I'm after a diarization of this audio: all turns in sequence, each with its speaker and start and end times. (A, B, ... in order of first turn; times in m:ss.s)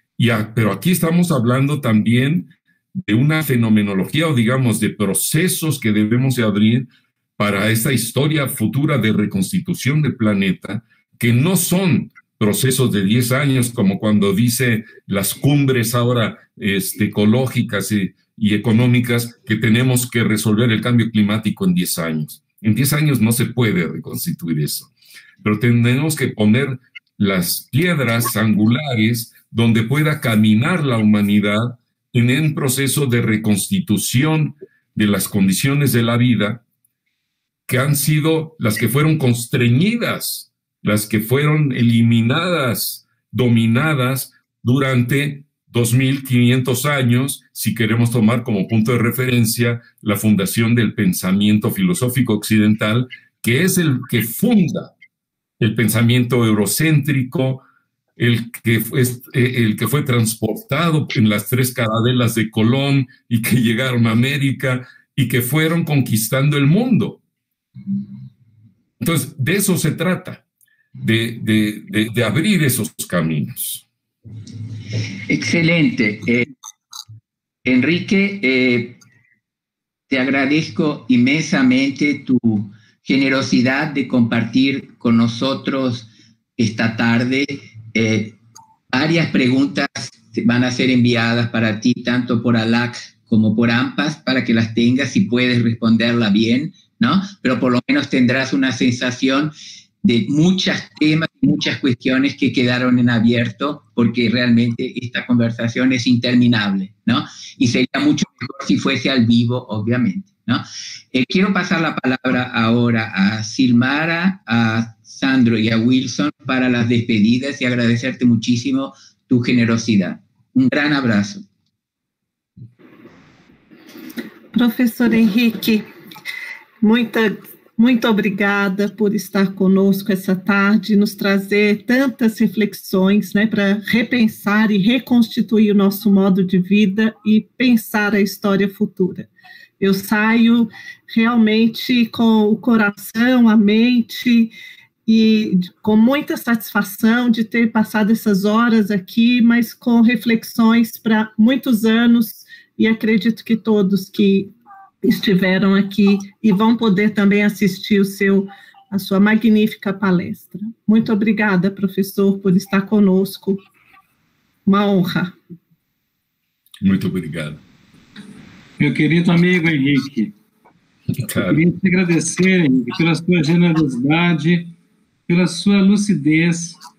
0:00.2-0:24.9 A
0:25.4-0:36.6 A
0:37.7-0:54.9 A
0:55.6-0:57.6 A
0:58.2-1:07.2 A
1:09.0-1:10.4 A
1:11.0-1:13.8 A
1:15.3-1:16.5 B
1:17.6-1:19.0 B
1:20.1-1:28.4 B
1:28.9-1:39.5 B
1:40.0-2:01.4 B
2:04.5-2:05.8 C
2:06.8-2:19.3 C
2:19.8-2:24.5 C
2:25.1-2:43.6 C
2:44.7-2:45.4 C
2:46.8-2:47.6 A
2:48.8-2:50.3 D
2:51.2-2:51.6 A
2:51.5-2:54.7 D
2:55.3-2:56.8 D